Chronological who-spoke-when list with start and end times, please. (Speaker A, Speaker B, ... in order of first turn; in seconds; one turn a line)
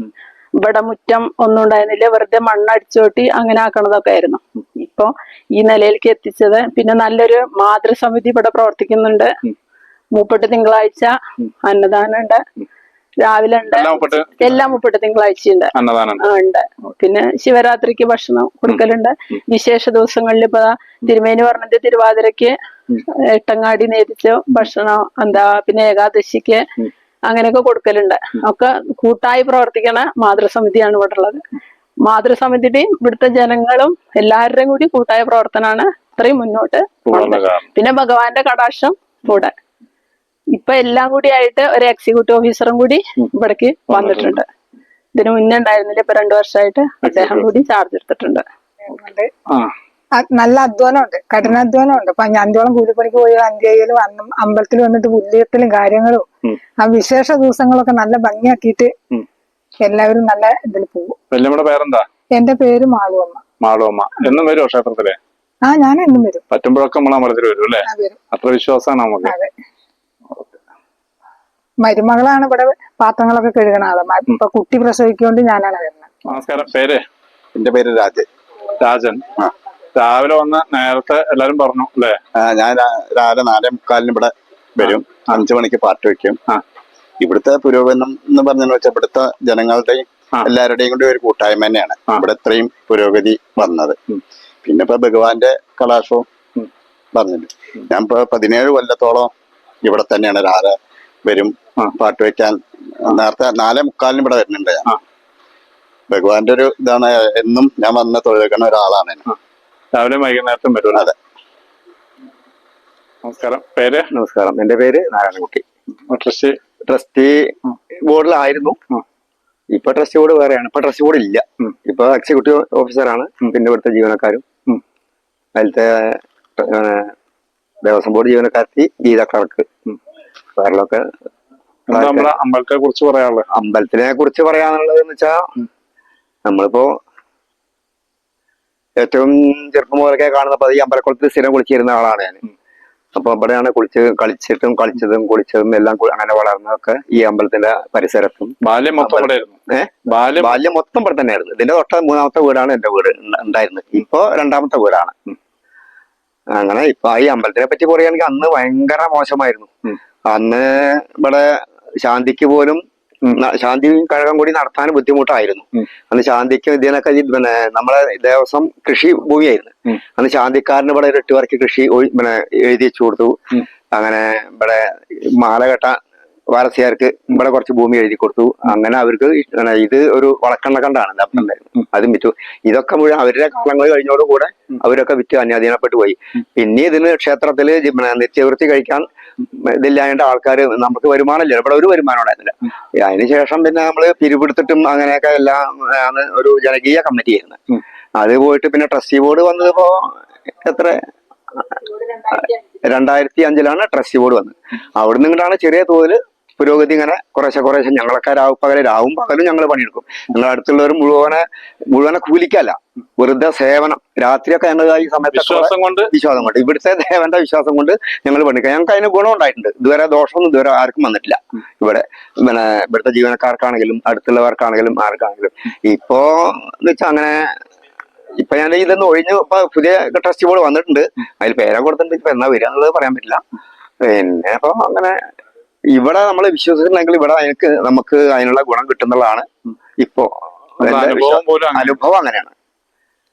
Speaker A: 0.6-9.3
Speaker A: 10.1-11.1
Speaker A: 11.6-12.4
Speaker A: 13.2-22.5
Speaker B: 13.6-14.8
Speaker B: 15.7-16.2
Speaker A: 23.4-26.6
Speaker A: 27.3-31.4
Speaker A: 32.0-39.5
Speaker B: 37.0-37.7
Speaker A: 40.5-44.4
Speaker B: 43.9-44.4
Speaker A: 45.1-48.4
Speaker B: 47.0-47.5
Speaker C: 48.9-49.3
Speaker C: 50.1-56.3
Speaker C: 56.8-58.9
Speaker C: 59.8-61.2
Speaker B: 61.3-62.1
Speaker C: 62.3-63.4
Speaker B: 63.6-65.2
Speaker C: 65.6-66.4
Speaker B: 66.5-69.4
Speaker C: 67.9-68.2
Speaker C: 69.2-69.5
Speaker C: 71.8-76.1
Speaker B: 76.3-77.0
Speaker D: 77.5-78.2
Speaker B: 78.8-79.3
Speaker B: 79.9-82.2
Speaker D: 82.3-86.4
Speaker B: 84.8-85.4
Speaker D: 87.2-94.0
Speaker D: 94.6-96.2
Speaker D: 97.1-99.3
Speaker D: 99.8-104.9
Speaker D: 106.1-109.2
Speaker B: 109.9-111.1
Speaker B: 113.2-114.1
Speaker E: 114.1-115.6
Speaker B: 116.1-116.6
Speaker E: 116.8-118.8
Speaker E: 119.7-124.4
Speaker E: 125.5-127.1
Speaker E: 127.8-129.7
Speaker E: 130.6-131.1
Speaker B: 131.9-133.4
Speaker E: 131.9-132.3
Speaker E: 133.5-135.5
Speaker E: 136.4-136.9
Speaker E: 139.0-142.4
Speaker E: 143.1-155.1
Speaker B: 148.6-150.6
Speaker E: 156.5-159.7
Speaker E: 160.3-173.4
Speaker E: 173.9-201.0
Speaker E: 201.6-227.5
Speaker B: 215.3-216.1
Speaker E: 228.4-233.4
Speaker E: 234.0-235.2
Speaker E: 235.9-242.5
Speaker B: 240.8-242.0